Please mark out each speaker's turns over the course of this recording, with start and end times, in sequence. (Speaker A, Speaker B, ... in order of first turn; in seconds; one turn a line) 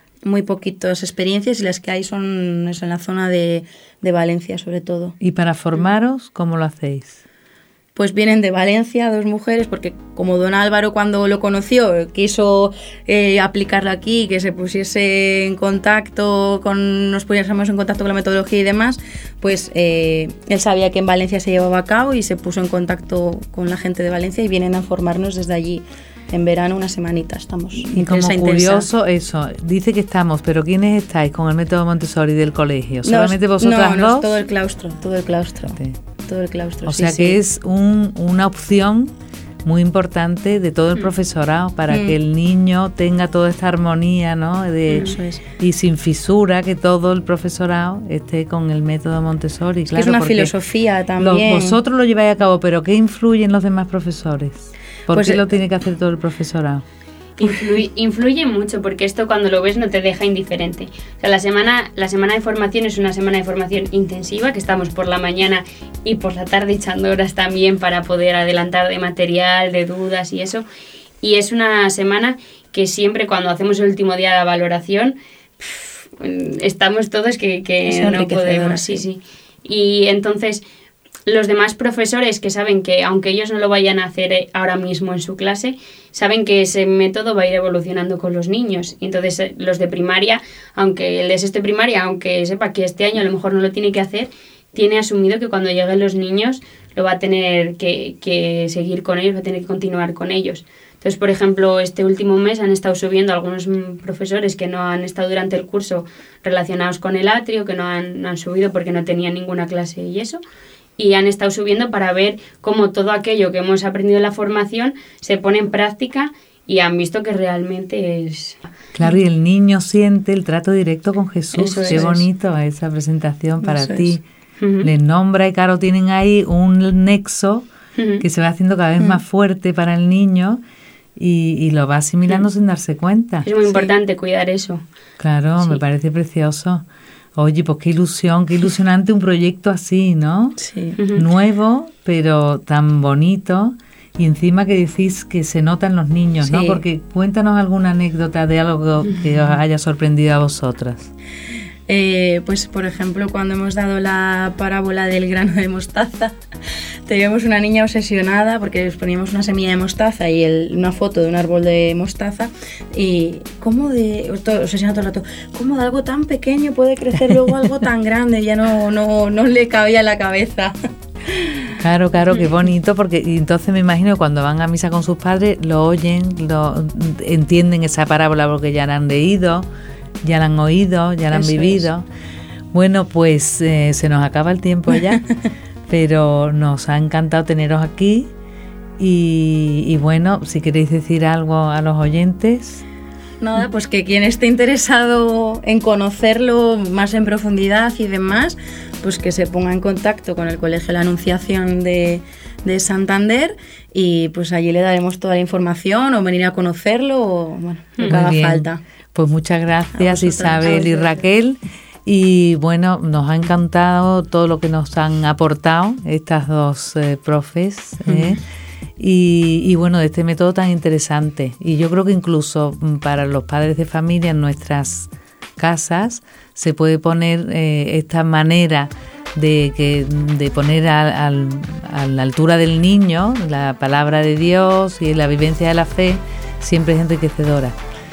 Speaker A: 0.2-5.1
Speaker B: 5.2-7.2
Speaker A: 8.0-28.9
Speaker B: 27.7-34.3
Speaker A: 33.0-37.4
Speaker B: 36.9-39.1
Speaker B: 39.6-50.5
Speaker A: 41.9-42.1
Speaker A: 44.9-45.4
Speaker A: 49.9-51.8
Speaker B: 51.2-56.8
Speaker A: 55.1-55.4
Speaker C: 57.4-70.6
Speaker C: 71.2-80.6
Speaker A: 77.8-79.0
Speaker C: 81.2-110.4
Speaker C: 111.0-118.6
Speaker B: 118.9-124.2
Speaker A: 121.5-122.3
Speaker C: 121.6-122.0
Speaker A: 123.6-124.2
Speaker C: 124.6-124.9
Speaker B: 124.8-127.7
Speaker C: 128.0-128.2
Speaker B: 128.2-130.6
Speaker B: 131.2-133.5
Speaker C: 133.4-134.8
Speaker B: 135.2-140.6
Speaker A: 140.6-141.0
Speaker C: 141.0-141.2
Speaker B: 141.1-151.1
Speaker A: 146.4-146.8
Speaker A: 151.9-156.3
Speaker A: 157.1-171.7
Speaker B: 167.2-167.5
Speaker B: 171.8-179.7
Speaker B: 180.2-182.0
Speaker A: 181.3-181.8
Speaker B: 182.7-185.2
Speaker B: 185.9-188.3
Speaker B: 189.0-192.8
Speaker A: 193.4-208.8
Speaker B: 208.1-218.4
Speaker A: 210.0-211.2
Speaker A: 218.1-218.4
Speaker B: 219.0-237.8